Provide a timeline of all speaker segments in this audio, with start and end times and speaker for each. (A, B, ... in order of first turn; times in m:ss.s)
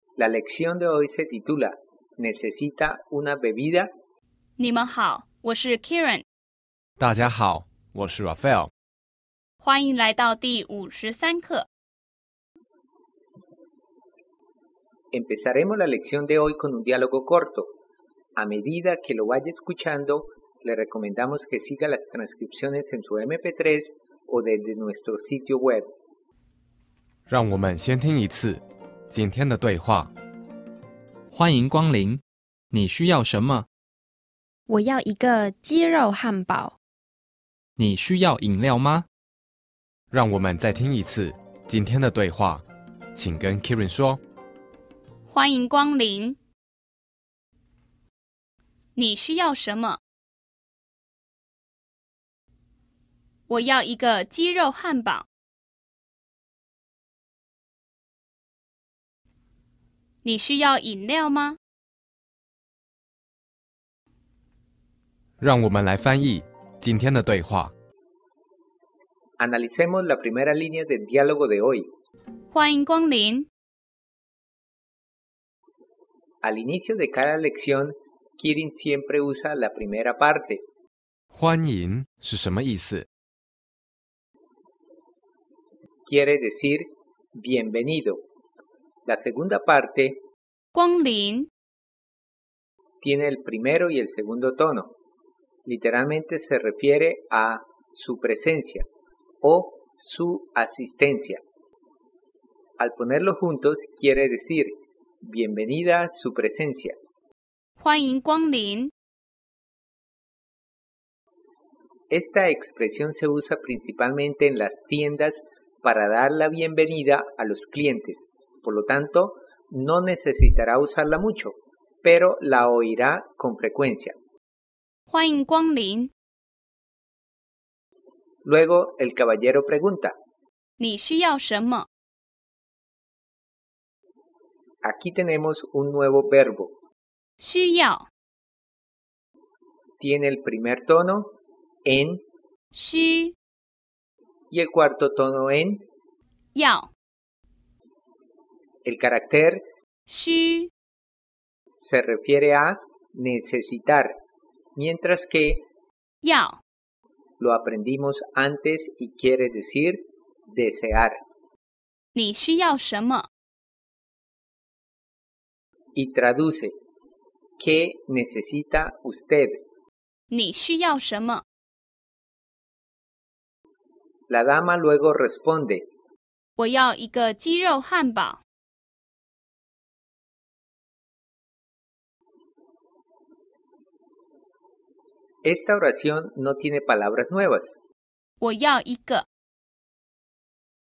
0:00.2-0:03.9 A
0:04.6-0:06.2 B
0:07.0-0:08.7 C
0:09.6-0:11.6 B
0:15.1-0:17.7 A
0:18.4-0:25.9 A
0:27.3-0:30.1 C
0:31.3-0:33.7 D
0:34.7-0:36.8 E
0:37.8-0:39.1 D
0:40.1-0:42.6 C
0:43.1-0:44.2 C
0:45.3-0:46.4 B
0:49.0-0:50.0 B
0:53.5-0:55.2 B
1:00.2-1:01.6 B
1:05.4-1:07.7 C
1:09.4-1:11.9 A
1:12.5-1:13.5 B
1:16.4-1:20.6 A
1:21.3-1:23.1 C
1:26.0-1:28.2 A
1:29.0-1:30.2 A
1:30.7-1:31.5 B
1:33.0-1:34.9 A
1:35.6-1:38.8 A
1:39.4-1:41.4 A
1:42.8-1:47.0 A
1:47.8-1:48.9 B
1:52.1-2:04.1 A
2:05.1-2:06.1 B
2:08.4-2:10.1 A
2:10.8-2:11.9 B
2:14.8-2:16.7 A
2:17.4-2:18.1 B
2:20.0-2:22.2 A
2:22.7-2:23.3 B
2:24.5-2:25.8 A
2:26.5-2:26.9 B
2:28.8-2:29.6 A
2:30.1-2:30.7 B
2:31.8-2:34.1 A
2:34.8-2:35.6 A
2:36.2-2:36.6 B
2:37.4-2:41.2 A
2:42.1-2:43.3 B
2:45.9-2:46.7 A
2:47.6-2:49.6 A
2:50.3-2:51.4 B
2:54.3-2:55.9 A
2:56.6-2:58.4 B
3:05.4-3:07.8 A
3:08.4-3:09.2 B